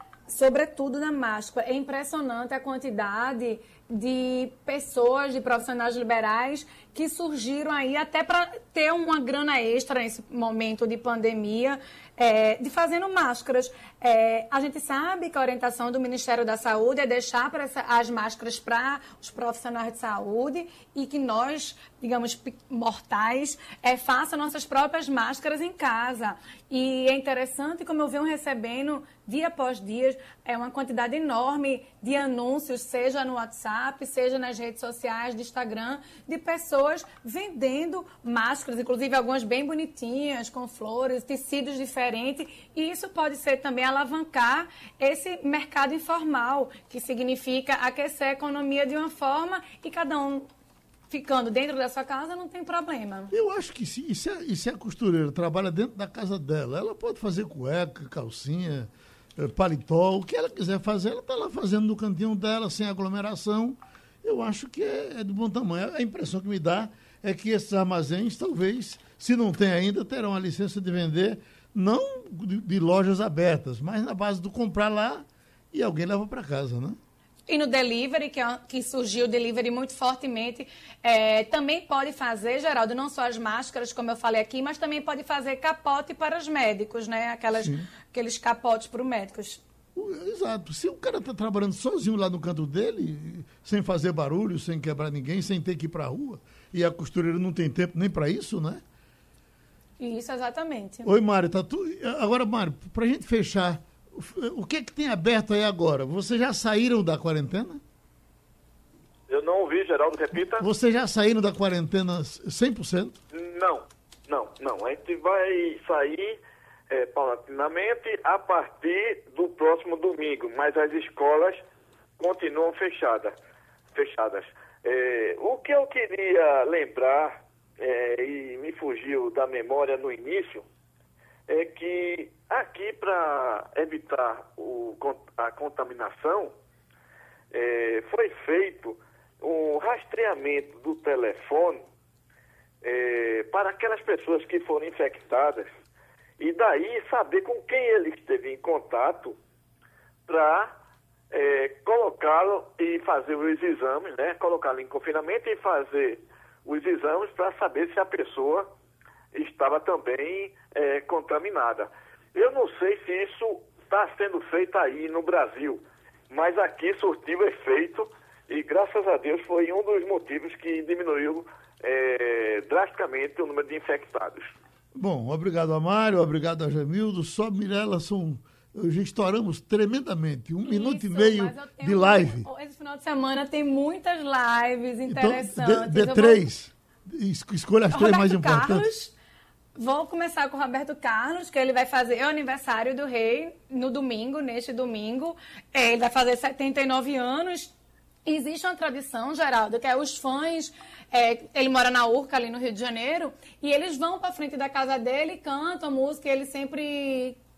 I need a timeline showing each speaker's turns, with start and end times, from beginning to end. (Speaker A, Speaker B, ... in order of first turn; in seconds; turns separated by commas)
Speaker A: 0.3-50.5, Speaker A: 51.1-53.3, Speaker B: 53.3-77.0, Speaker A: 77.5-89.6, Speaker B: 87.5-87.9, Speaker B: 89.9-98.8, Speaker A: 100.0-101.1, Speaker B: 101.0-107.8, Speaker C: 109.3-110.6, Speaker B: 110.5-113.2, Speaker C: 113.3-116.4, Speaker C: 116.9-121.6, Speaker C: 122.2-123.3, Speaker C: 123.9-130.7, Speaker C: 131.5-136.5, Speaker C: 137.5-141.8, Speaker C: 142.8-145.7, Speaker C: 146.4-149.4, Speaker C: 150.3-150.7, Speaker C: 151.3-158.7, Speaker C: 159.3-174.5, Speaker B: 174.9-182.5, Speaker A: 180.6-186.4, Speaker B: 185.1-188.9, Speaker A: 187.9-189.1, Speaker A: 189.8-197.7, Speaker A: 198.2-207.4